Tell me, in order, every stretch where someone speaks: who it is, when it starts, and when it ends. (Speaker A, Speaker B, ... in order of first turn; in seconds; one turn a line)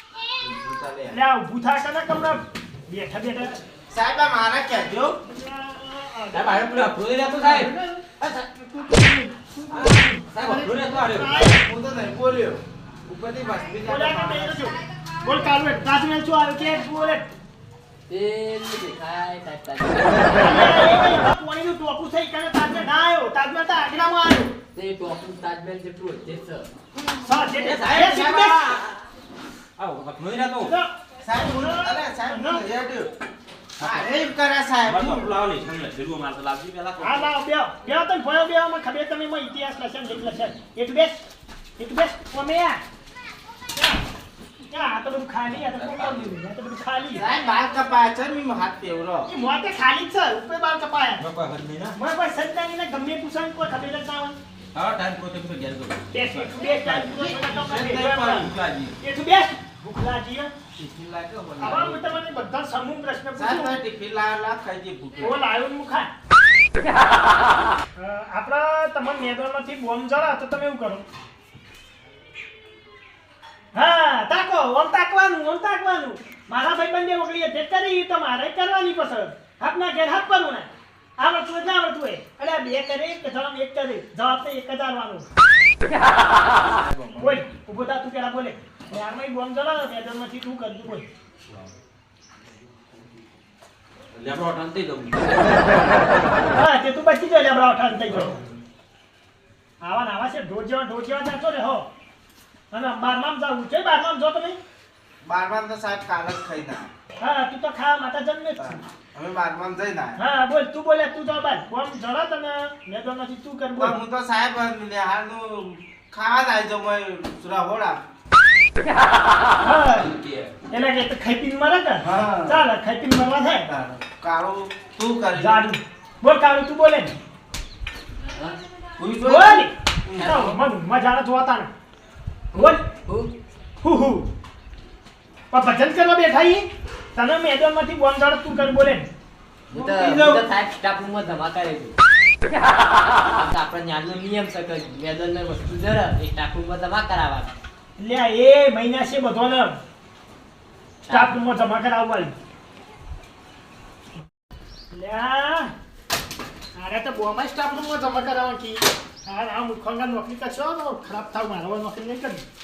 Speaker A: 0.4-1.2
Speaker B: 1.1-3.6
Speaker A: 3.9-5.2
Speaker B: 5.3-8.0
Speaker C: 6.3-8.9
Speaker B: 8.8-11.6
Speaker C: 9.7-11.5
Speaker A: 11.4-14.7
Speaker B: 13.8-17.3
Speaker D: 18.1-21.0
Speaker B: 20.4-24.6
Speaker D: 24.7-26.7
Speaker B: 27.2-28.6
Speaker A: 27.6-28.9
Speaker C: 27.7-28.0
Speaker C: 29.8-30.7
Speaker B: 30.6-30.9
Speaker A: 31.2-33.1
Speaker B: 31.5-32.7
Speaker A: 33.8-35.3
Speaker C: 33.8-34.1
Speaker C: 34.8-37.3
Speaker B: 37.0-41.2
Speaker B: 41.8-42.8
Speaker B: 43.8-44.0
Speaker B: 44.7-47.3
Speaker C: 45.5-46.3
Speaker A: 47.1-49.3
Speaker B: 49.3-51.2
Speaker C: 51.2-52.0
Speaker B: 52.0-54.4
Speaker C: 54.7-59.0
Speaker B: 56.1-60.5
Speaker A: 60.8-62.1
Speaker B: 61.6-63.8
Speaker A: 63.4-65.4
Speaker B: 65.2-66.1
Speaker B: 68.0-71.0
Speaker B: 73.7-85.3
Speaker C: 86.8-87.4
Speaker A: 86.9-87.3
Speaker B: 87.2-91.1
Speaker C: 94.1-95.8
Speaker B: 96.5-98.3
Speaker C: 98.1-98.6
Speaker B: 99.8-101.9
Speaker B: 102.7-104.6
Speaker A: 105.2-106.9
Speaker B: 107.2-108.8
Speaker A: 108.6-110.2
Speaker B: 110.2-114.0
Speaker A: 113.8-118.0
Speaker B: 119.6-120.1
Speaker C: 119.8-120.5
Speaker B: 120.7-123.7
Speaker A: 122.0-122.7
Speaker A: 123.7-125.6
Speaker B: 125.4-127.2
Speaker A: 129.0-130.4
Speaker B: 129.2-129.7
Speaker D: 130.2-130.6
Speaker B: 130.2-131.7
Speaker B: 132.5-132.8
Speaker D: 132.5-133.3
Speaker B: 133.8-134.3
Speaker B: 135.5-139.1
Speaker D: 139.7-141.9
Speaker A: 139.7-140.5
Speaker D: 143.3-147.5
Speaker B: 148.0-149.8
Speaker D: 151.1-151.4
Speaker B: 151.1-152.3
Speaker B: 154.9-155.7
Speaker B: 156.8-162.4